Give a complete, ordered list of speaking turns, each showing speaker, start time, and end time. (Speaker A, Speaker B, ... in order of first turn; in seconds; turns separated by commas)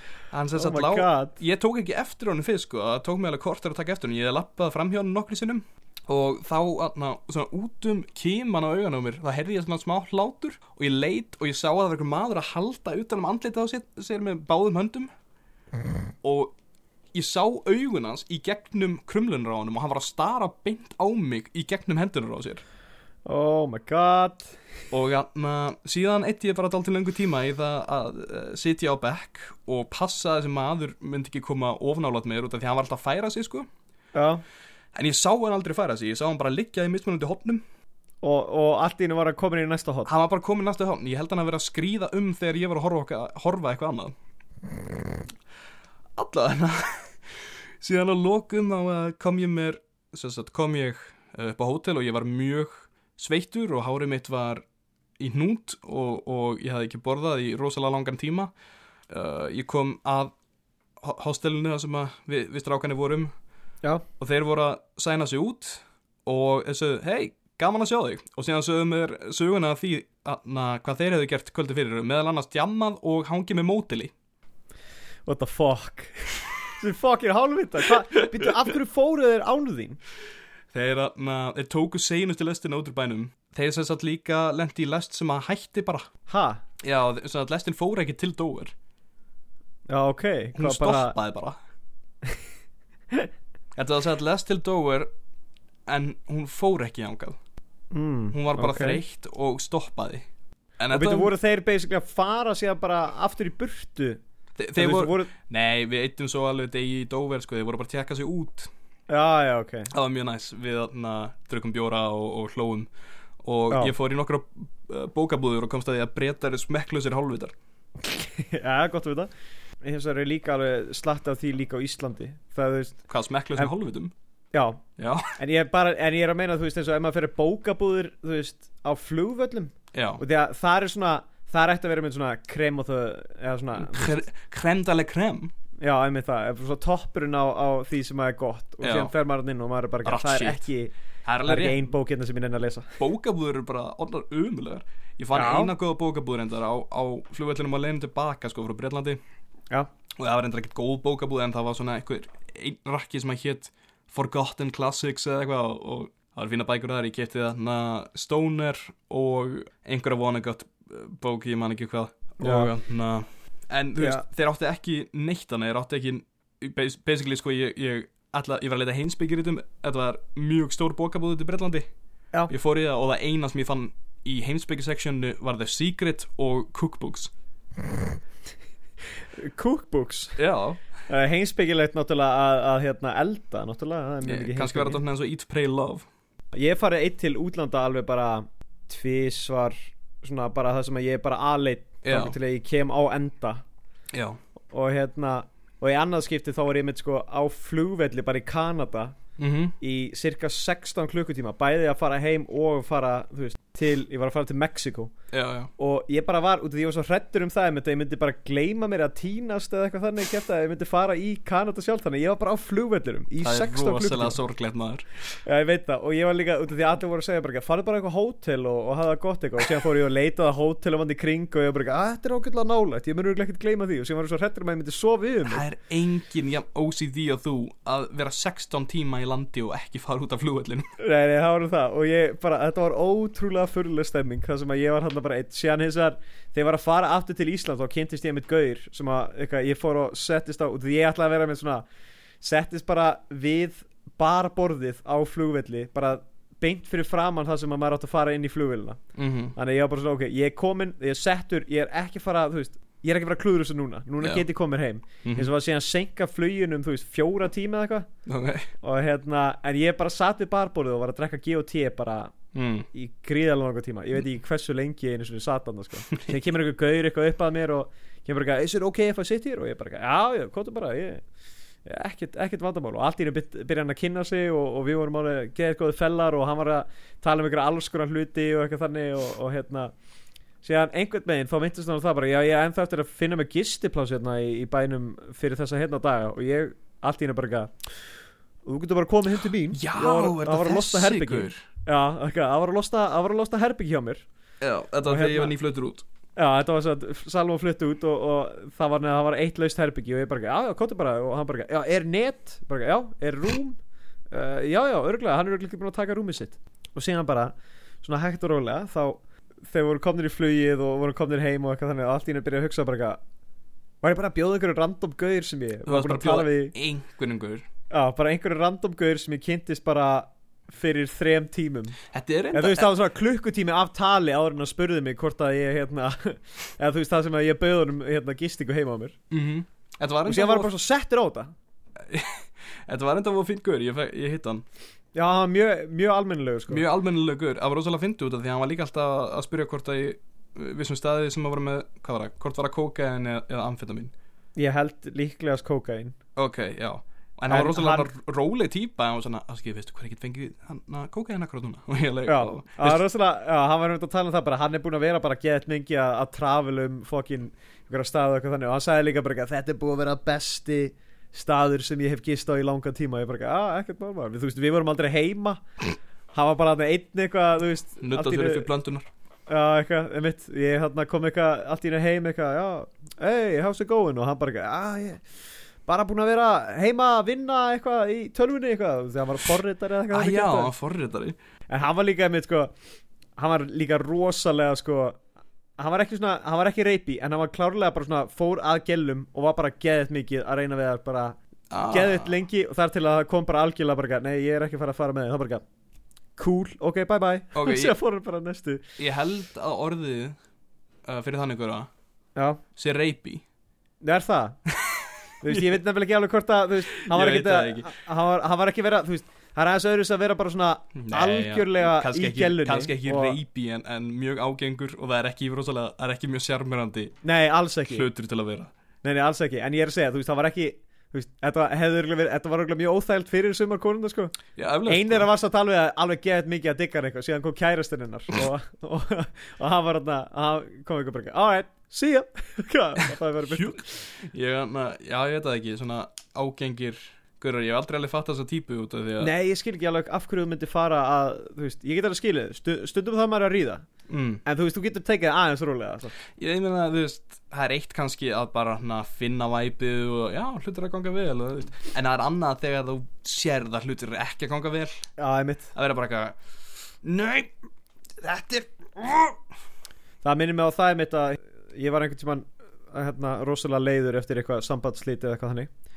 Speaker A: 0.3-15.1, Speaker B: 0.6-1.4, Speaker A: 16.2-16.6, Speaker A: 17.1-22.6, Speaker B: 23.2-24.5, Speaker A: 24.9-33.7, Speaker B: 34.1-34.4, Speaker A: 34.9-37.6, Speaker B: 38.2-40.1, Speaker A: 40.1-44.1, Speaker A: 46.2-54.6, Speaker A: 55.2-58.5, Speaker A: 59.1-60.3, Speaker A: 61.0-63.3, Speaker A: 64.2-74.1, Speaker B: 75.3-80.0, Speaker A: 80.7-86.1, Speaker B: 86.3-86.6, Speaker A: 86.8-88.7, Speaker B: 89.9-91.2, Speaker A: 90.5-91.6, Speaker A: 93.8-95.1, Speaker A: 95.9-97.4, Speaker B: 97.9-99.0, Speaker A: 98.3-100.3, Speaker A: 100.8-101.3, Speaker B: 100.9-104.2, Speaker A: 104.6-108.7, Speaker B: 104.8-105.3, Speaker B: 109.1-109.9, Speaker A: 109.9-112.9, Speaker A: 113.4-117.5, Speaker B: 118.0-119.3, Speaker B: 119.8-123.0, Speaker A: 123.1-124.1, Speaker B: 124.5-124.8, Speaker A: 125.0-125.3, Speaker B: 125.4-134.2, Speaker A: 129.9-130.2, Speaker A: 133.8-135.5, Speaker B: 135.8-140.9, Speaker A: 138.8-139.1, Speaker A: 140.1-140.7, Speaker A: 141.2-141.9, Speaker B: 141.4-142.9, Speaker A: 143.0-149.2, Speaker B: 145.3-145.7, Speaker A: 150.2-171.9, Speaker B: 162.4-162.7, Speaker B: 164.0-164.2, Speaker A: 172.5-177.3, Speaker B: 179.4-180.4, Speaker A: 180.4-180.8, Speaker B: 181.1-185.0, Speaker A: 184.2-186.1, Speaker B: 186.5-193.6, Speaker A: 192.0-192.3, Speaker A: 194.1-194.4, Speaker B: 194.7-199.1, Speaker A: 199.4-199.8, Speaker B: 199.8-205.1, Speaker A: 205.3-205.7, Speaker B: 205.8-214.4, Speaker A: 213.4-215.1, Speaker B: 215.4-225.7, Speaker A: 225.5-230.9, Speaker B: 231.0-241.8, Speaker B: 242.4-249.0, Speaker A: 249.2-249.6, Speaker B: 249.6-258.1, Speaker A: 255.2-255.5, Speaker A: 258.3-258.7, Speaker B: 258.8-262.3, Speaker A: 262.5-262.9, Speaker B: 262.9-271.2, Speaker B: 271.9-279.9, Speaker B: 280.6-287.7, Speaker B: 288.6-294.2, Speaker A: 289.7-291.6, Speaker A: 294.6-296.1, Speaker B: 295.1-295.5, Speaker B: 296.4-303.8, Speaker B: 304.3-313.2, Speaker B: 314.0-316.7, Speaker A: 315.9-317.7, Speaker B: 317.9-322.0, Speaker A: 322.1-322.9, Speaker B: 322.5-329.2, Speaker A: 329.3-330.7, Speaker B: 330.3-331.5, Speaker A: 332.0-334.7, Speaker B: 335.1-336.8, Speaker A: 336.7-344.1, Speaker B: 344.6-346.2, Speaker A: 346.4-353.0, Speaker B: 347.5-348.1, Speaker B: 352.3-365.6, Speaker B: 366.3-368.7, Speaker A: 368.0-369.1, Speaker B: 369.5-375.2, Speaker B: 375.9-380.7, Speaker A: 380.1-381.4, Speaker B: 381.7-382.7, Speaker B: 383.4-385.2, Speaker B: 385.8-391.4, Speaker A: 391.7-392.3, Speaker B: 391.9-395.6, Speaker B: 396.4-398.8, Speaker A: 397.5-398.0, Speaker A: 399.0-400.4, Speaker A: 401.1-401.9, Speaker B: 402.4-402.6, Speaker A: 402.8-403.4, Speaker B: 404.0-404.6, Speaker A: 404.7-405.8, Speaker B: 405.4-413.4, Speaker A: 407.0-407.9, Speaker A: 411.0-417.2, Speaker B: 417.2-418.1, Speaker A: 417.9-418.7, Speaker B: 419.0-424.3, Speaker A: 424.6-425.3, Speaker B: 424.9-433.9, Speaker A: 433.5-439.3, Speaker B: 439.2-443.9, Speaker A: 444.1-444.4, Speaker B: 444.4-446.1, Speaker A: 446.3-455.1, Speaker B: 455.2-455.7, Speaker A: 455.7-456.4, Speaker A: 457.0-457.5, Speaker A: 458.2-459.4, Speaker B: 460.2-465.7